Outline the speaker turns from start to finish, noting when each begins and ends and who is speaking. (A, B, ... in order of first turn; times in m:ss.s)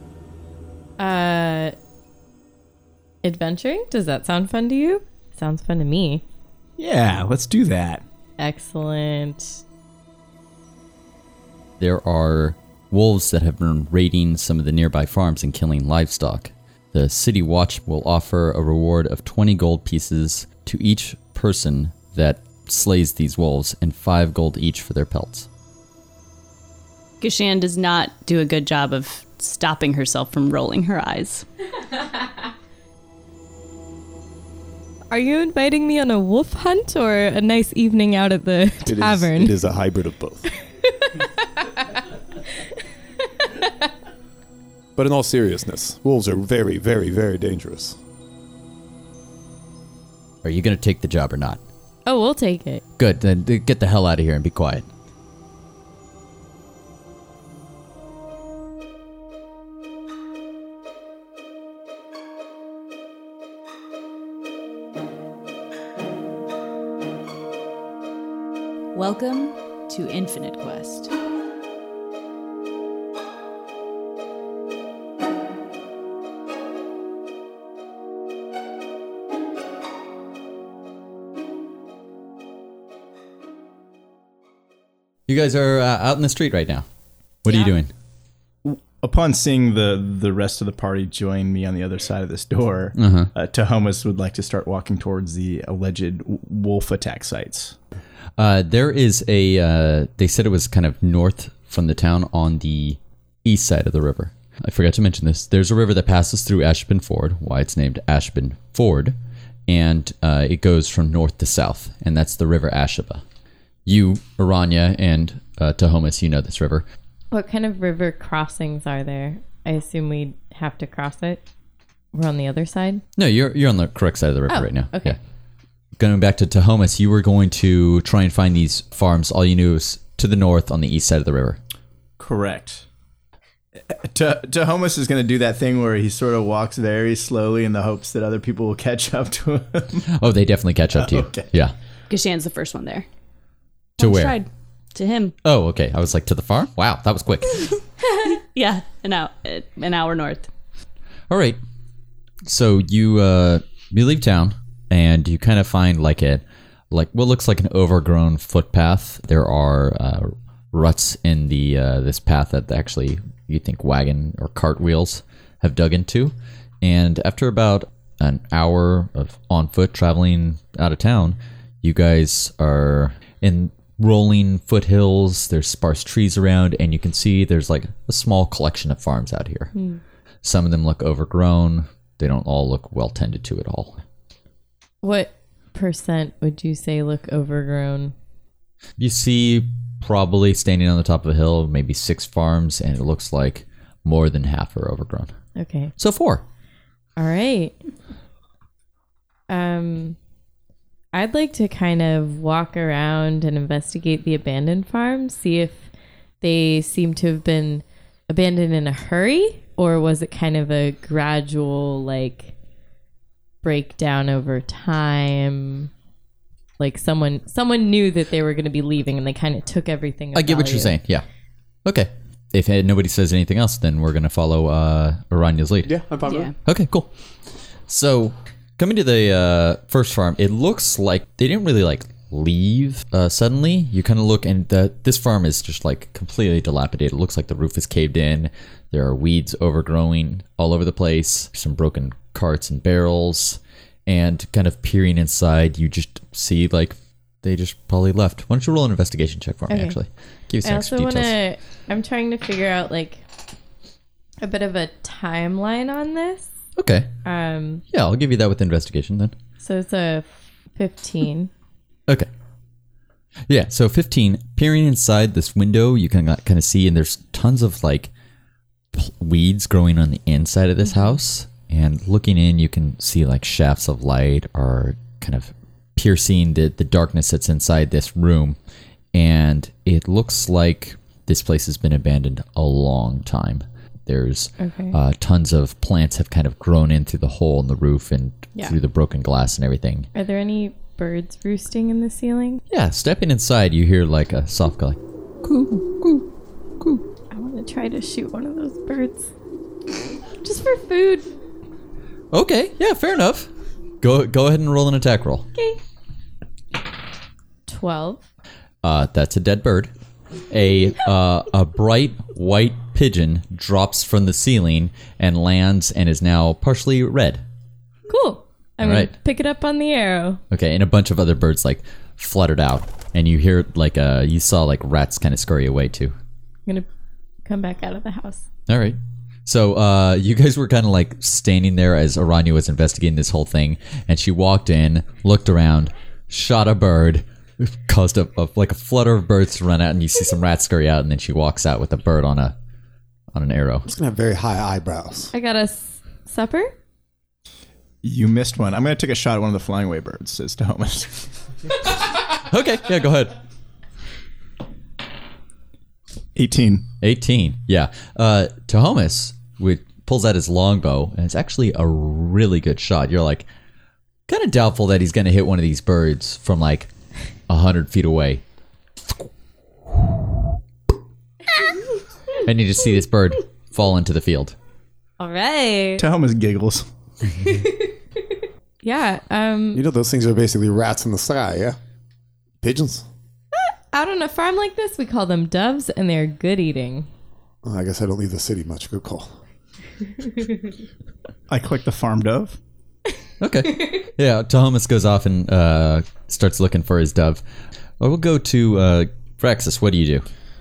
0:01.0-0:01.8 A
0:03.2-0:06.2 A
0:06.8-0:08.0 B
0:08.4-0:09.6 A
0:11.8-0:25.5 C
0:27.2-0:31.4 D
0:35.1-0:39.6 A
0:38.8-0:40.5 E
0:45.0-0:48.0 E
0:50.4-0:51.6 C
0:52.1-0:52.8 A
0:53.0-0:54.9 C
1:09.0-1:11.1 D
1:25.3-1:26.9 C
1:27.4-1:27.9 C
1:28.6-1:37.8 B
1:33.0-1:33.3 C
1:38.4-1:49.2 C
1:49.7-1:53.2 C
1:53.9-1:56.9 C
1:57.3-2:01.4 A
2:02.1-2:03.0 A
2:03.2-2:05.2 C
2:04.5-2:05.2 A
2:06.0-2:11.6 C
2:12.2-2:12.8 B
2:13.9-2:20.1 B
2:20.1-2:21.7 C
2:21.0-2:21.5 B
2:22.1-2:23.1 D
2:24.0-2:25.3 D
2:24.0-2:24.4 C
2:25.4-2:27.7 C
2:28.1-2:30.5 D
2:31.3-2:31.6 C
2:32.5-2:59.7 C
2:59.7-3:00.0 A
3:00.4-3:04.0 C
3:05.0-3:08.1 A
3:09.0-3:15.3 C
3:15.6-3:15.9 A
3:16.0-3:16.4 C
3:17.2-3:17.8 A
3:19.5-3:20.2 A
3:21.1-3:25.9 A
3:26.4-3:32.5 A
3:33.6-3:35.9 A
3:36.8-3:41.0 A
3:40.4-3:41.2 C
3:41.8-3:45.9 C
3:45.8-3:46.5 E
3:46.3-3:46.5 D
3:46.6-3:47.1 C
3:47.9-4:11.3 C
4:09.7-4:10.0 A
4:10.6-4:13.2 A
4:14.4-4:16.5 A
4:16.8-4:17.1 C
4:17.2-4:17.8 A
4:17.9-4:19.4 C
4:19.6-4:21.5 A
4:23.5-4:28.1 C
4:28.9-4:38.6 C
4:39.1-4:50.1 C
4:44.6-4:45.0 A
4:50.1-4:52.6 A
4:52.7-4:56.3 C
4:57.3-4:59.3 A
5:00.4-5:01.3 A
5:02.3-5:03.5 C
5:04.0-5:05.5 C
5:05.6-5:05.8 A
5:07.7-5:08.2 A
5:08.8-5:09.9 C
5:10.5-5:17.4 C
5:18.1-5:20.4 A
5:18.8-5:19.1 C
5:20.5-5:26.1 C
5:27.4-5:28.4 A
5:28.7-5:42.6 C
5:43.3-5:43.9 C
5:43.9-5:45.3 E
5:45.3-5:46.7 A
5:48.0-5:51.3 B
5:52.3-5:53.4 C
5:56.4-5:56.9 B
5:57.0-6:03.5 C
6:04.3-6:06.9 C
6:07.5-6:08.4 C
6:12.4-6:14.6 C
6:15.2-6:16.0 A
6:16.0-6:16.9 B
6:17.3-6:18.0 A
6:18.8-6:19.8 A
6:19.7-6:21.8 E
6:22.6-6:23.1 E
6:23.9-6:27.1 A
6:27.6-6:29.4 E
6:31.5-6:32.6 B
6:33.4-6:37.4 C
6:38.0-6:40.2 C